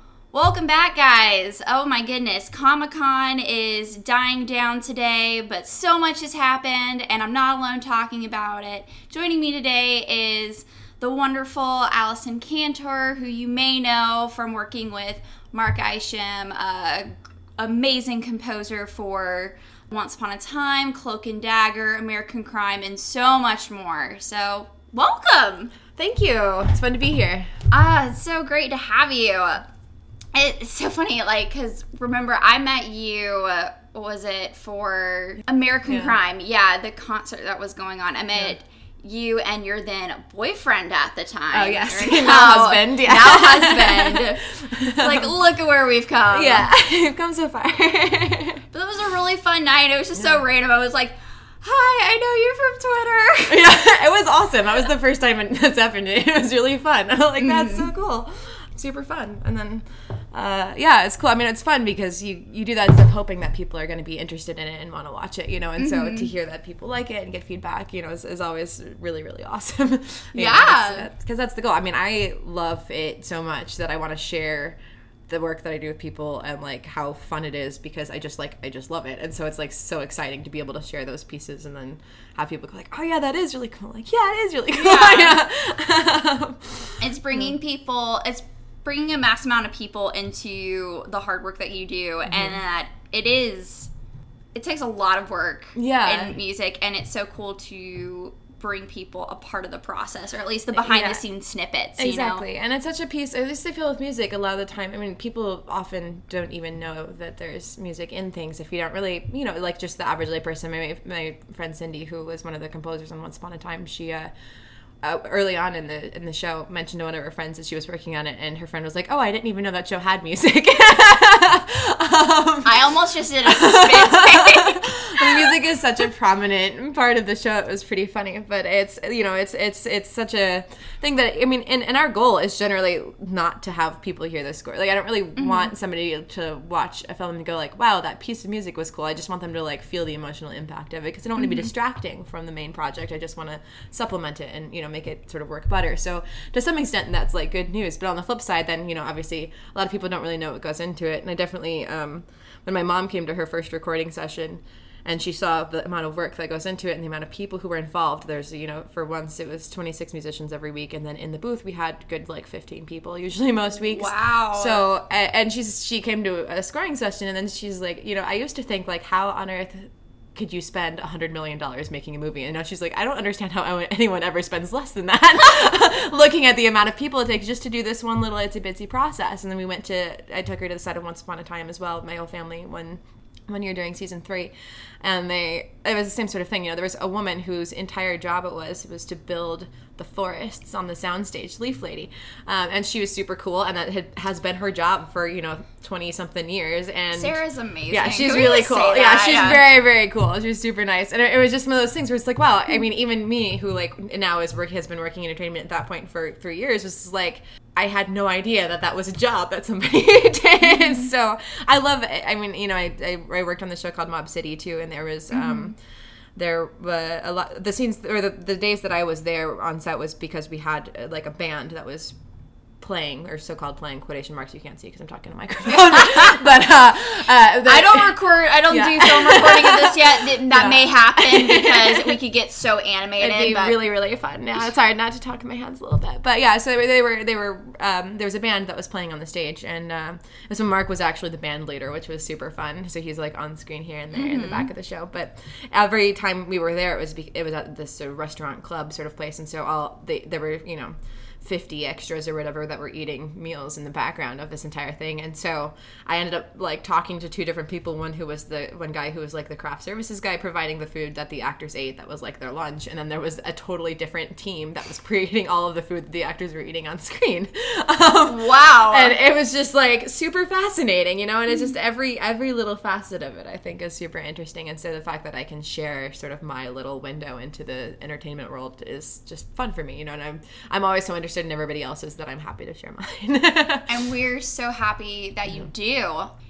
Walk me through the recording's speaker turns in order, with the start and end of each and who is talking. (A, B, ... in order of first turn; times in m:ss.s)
0:00.3-0:25.7 A
0:25.9-0:27.5 B
0:27.7-0:29.6 A
0:30.3-0:44.4 A
0:35.8-0:36.2 B
0:41.5-0:45.3 B
0:45.0-0:46.7 A
0:46.3-0:48.6 B
0:48.7-0:53.7 A
0:53.5-1:27.5 B
0:57.4-0:57.9 A
1:05.8-1:06.3 A
1:10.3-1:11.1 A
1:24.7-1:25.4 A
1:27.0-1:33.9 A
1:32.2-1:32.6 B
1:34.5-1:42.4 A
1:35.7-1:36.4 B
1:40.8-1:41.2 B
1:42.0-1:54.3 B
1:55.0-3:17.4 B
2:02.6-2:05.5 A
2:15.4-2:15.7 A
2:21.4-2:21.7 A
2:43.9-2:44.8 A
3:17.1-3:19.6 A
3:17.9-3:35.7 B
3:30.7-3:31.0 A
3:35.3-3:35.7 A
3:36.3-3:42.2 B
3:42.8-3:52.2 B
3:45.7-3:46.4 A
3:47.6-3:53.8 A
3:53.2-4:43.9 B
4:04.1-4:04.7 A
4:28.2-4:29.2 A
4:43.9-4:46.3 A